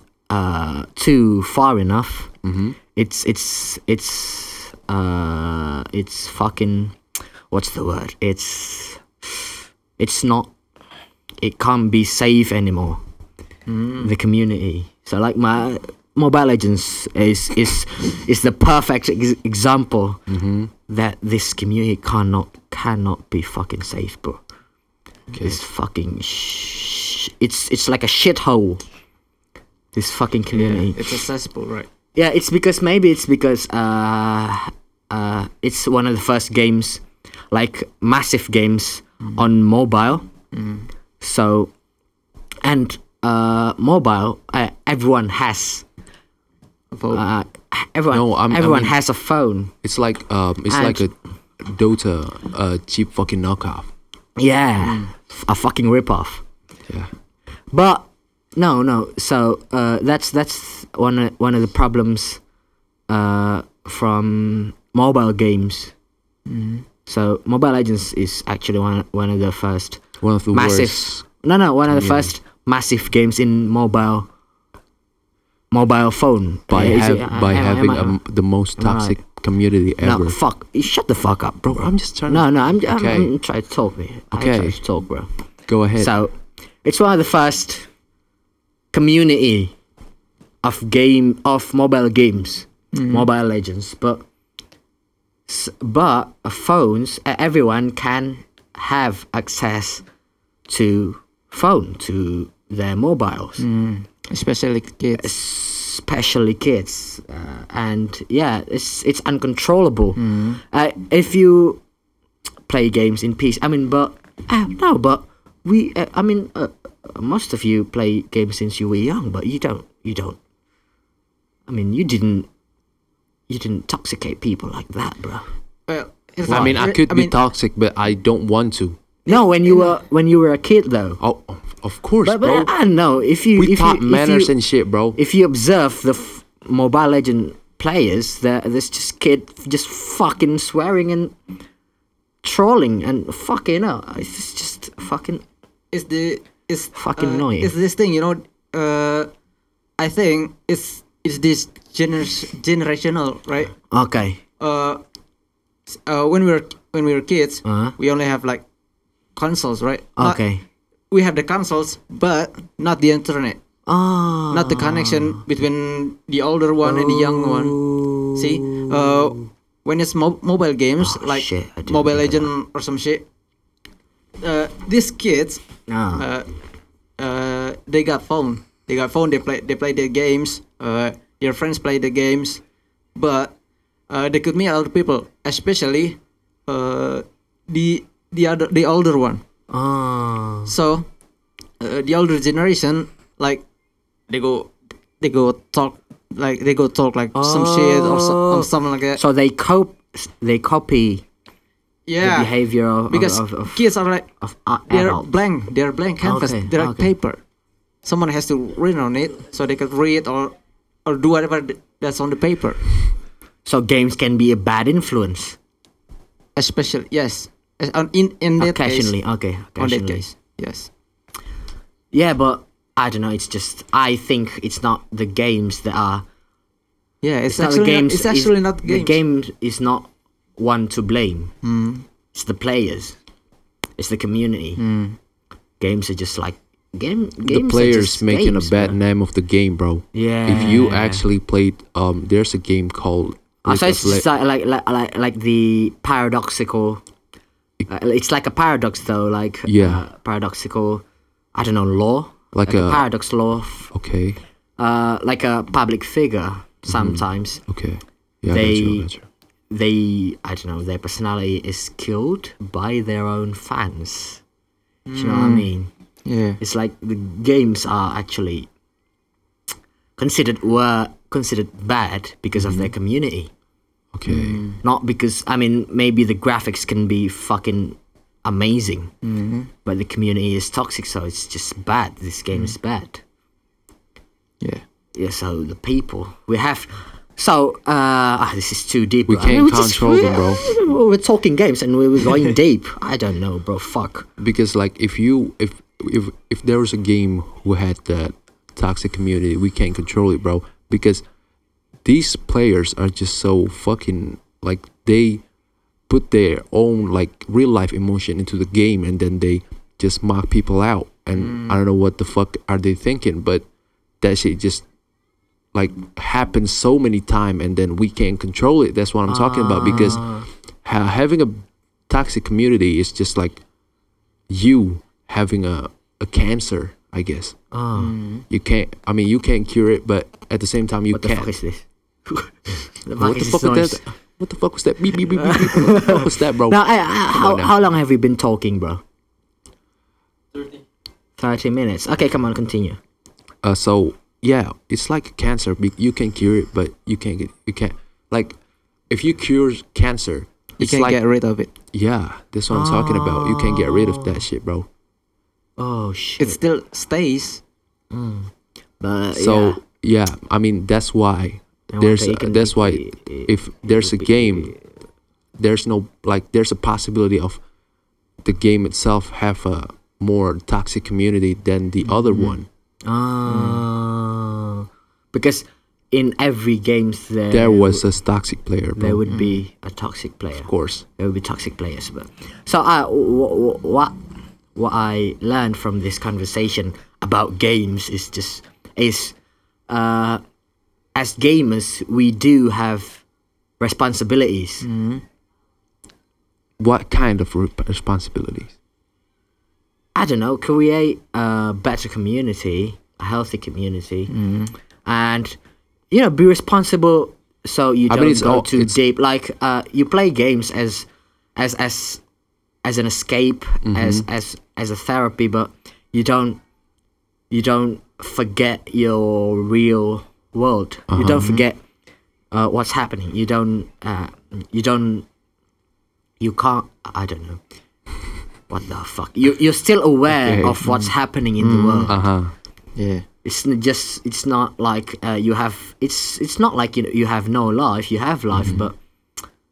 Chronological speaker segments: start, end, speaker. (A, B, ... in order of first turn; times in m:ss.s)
0:00.3-0:02.3 A
0:02.4-0:02.8 B
0:02.9-0:07.0 A
0:07.5-0:10.5 A
0:11.4-0:13.0 A
0:13.7-0:14.1 C
0:14.0-0:20.2 A
0:20.3-0:20.7 B
0:20.9-0:24.4 A
0:25.3-0:25.6 B
0:25.4-0:28.8 A
0:29.9-0:31.2 A
0:30.5-0:31.9 C
0:32.1-0:40.2 A
0:40.5-0:40.9 C
0:41.2-0:41.7 A
0:42.6-0:45.8 A
0:46.9-0:47.2 C
0:47.1-0:49.7 A
0:48.1-0:48.9 B
0:49.8-0:53.9 B
0:50.7-0:51.0 A
0:54.4-0:56.4 A
0:54.8-0:55.1 C
0:57.7-1:02.4 A
1:03.1-1:05.9 A
1:06.5-1:06.8 C
1:07.1-1:14.3 A
1:10.2-1:11.2 B
1:11.9-1:12.3 B
1:15.7-1:18.2 A
1:16.7-1:20.4 B
1:18.8-1:19.2 A
1:20.0-1:25.3 A
1:21.7-1:23.3 B
1:24.3-1:24.8 B
1:25.7-1:26.1 B
1:26.0-1:27.9 A
1:28.9-1:29.7 A
1:30.6-1:34.2 A
1:32.9-1:33.3 C
1:35.5-1:40.0 A
1:40.7-1:43.6 A
1:43.6-1:45.3 C
1:45.2-1:51.8 A
1:50.2-1:50.6 C
1:52.7-2:00.4 A
2:01.7-2:02.5 A
2:03.5-2:05.5 A
2:05.9-2:07.3 C
2:06.4-2:06.8 A
2:06.5-2:09.0 B
2:09.2-2:11.2 A
2:09.3-2:09.9 C
2:11.2-2:12.7 B
2:12.2-2:14.5 A
2:13.6-2:15.2 B
2:15.1-2:21.3 A
2:22.4-2:25.4 A
2:25.9-2:29.3 C
2:26.9-2:27.7 A
2:30.0-2:33.7 C
2:33.9-2:34.4 A
2:34.6-2:35.0 C
2:35.9-2:38.6 C
2:37.6-2:37.9 A
2:39.4-2:40.4 C
2:40.2-2:40.6 A
2:41.1-2:43.6 C
2:43.8-2:45.4 A
2:44.5-2:47.8 C
2:46.8-2:49.4 A
2:48.3-2:53.2 C
2:51.0-2:52.5 A
2:54.4-2:55.6 C
2:55.9-2:56.3 A
2:56.2-2:56.5 C
2:57.2-3:02.6 C
3:03.2-3:03.5 C
3:04.1-3:09.4 C
3:09.7-3:10.7 A
3:10.6-3:11.1 C
3:11.8-3:13.6 C
3:14.3-3:19.2 C
3:17.3-3:21.2 A
3:22.1-3:22.5 C
3:22.2-3:23.8 A
3:23.1-3:24.3 C
3:24.4-3:25.2 A
3:24.9-3:27.4 C
3:26.2-3:27.1 A
3:28.0-3:30.5 C
3:31.0-3:32.8 C
3:33.6-3:35.6 A
3:36.6-3:39.2 C
3:38.6-3:40.2 A
3:39.8-3:40.9 C
3:42.1-3:46.2 A
3:47.2-3:49.2 C
3:47.5-3:51.5 A
3:51.6-3:52.0 C
3:52.3-3:53.2 A
3:54.0-3:54.8 A
3:54.8-3:55.2 C
3:55.8-3:59.0 A
3:57.4-4:04.2 B
4:00.1-4:01.2 A
4:03.6-4:07.0 A
4:07.9-4:11.0 A
4:09.6-4:10.0 B
4:11.5-4:13.9 A
4:12.5-4:13.0 B
4:13.9-4:14.4 B
4:14.8-4:17.6 A
4:16.9-4:19.2 B
4:18.5-4:19.1 A
4:19.7-4:24.4 A
4:25.1-4:25.7 C
4:25.1-4:25.9 A
4:26.2-4:26.6 C
4:26.6-4:28.7 A
4:30.2-4:33.5 A
4:34.1-4:34.6 B
4:34.3-4:34.8 C
4:34.7-4:39.1 A
4:39.2-4:39.7 C
4:39.8-4:43.2 A
4:45.1-4:54.3 A
4:49.3-4:50.6 B
4:54.4-5:01.2 B
5:02.0-5:05.4 B
5:06.1-5:13.6 B
5:11.4-5:11.8 C
5:14.2-5:14.8 B
5:15.7-5:23.6 B
5:19.3-5:20.5 A
5:24.5-5:27.6 B
5:27.7-5:28.2 A
5:28.0-5:28.4 C
5:28.5-5:31.5 B
5:31.1-5:32.3 A
5:33.0-5:34.0 A
5:33.2-5:37.7 B
5:35.4-5:39.0 A
5:41.4-5:43.0 A
5:43.6-5:48.6 B
5:49.1-5:51.2 B
5:50.8-5:51.7 C
5:51.9-5:54.9 B
5:52.7-5:54.4 A
5:55.8-5:56.6 A
5:56.4-5:57.6 C
5:58.1-5:59.8 A
5:59.3-6:04.7 B
6:01.9-6:04.7 A
6:05.6-6:07.6 B
6:08.4-6:12.7 B
6:12.3-6:18.1 A
6:13.5-6:13.8 C
6:17.5-6:19.2 B
6:19.0-6:24.1 A
6:19.3-6:19.6 C
6:20.6-6:21.0 B
6:24.7-6:29.3 A
6:29.9-6:30.4 A
6:31.1-6:33.2 A
6:33.8-6:34.8 A
6:34.8-6:35.2 C
6:36.8-6:38.7 B
6:40.1-6:44.3 A
6:44.3-6:44.7 C
6:45.0-6:45.6 A
6:46.1-6:52.2 A
6:48.1-6:49.0 B
6:52.8-6:56.6 A
6:53.8-6:54.2 B
6:57.5-7:01.8 A
7:01.1-7:01.6 B
7:02.5-7:05.2 A
7:06.4-7:07.6 A
7:08.7-7:12.1 A
7:10.4-7:11.1 B
7:11.6-7:12.2 C
7:12.1-7:12.5 B
7:13.0-7:13.2 C
7:13.4-7:19.0 A
7:18.5-7:18.8 B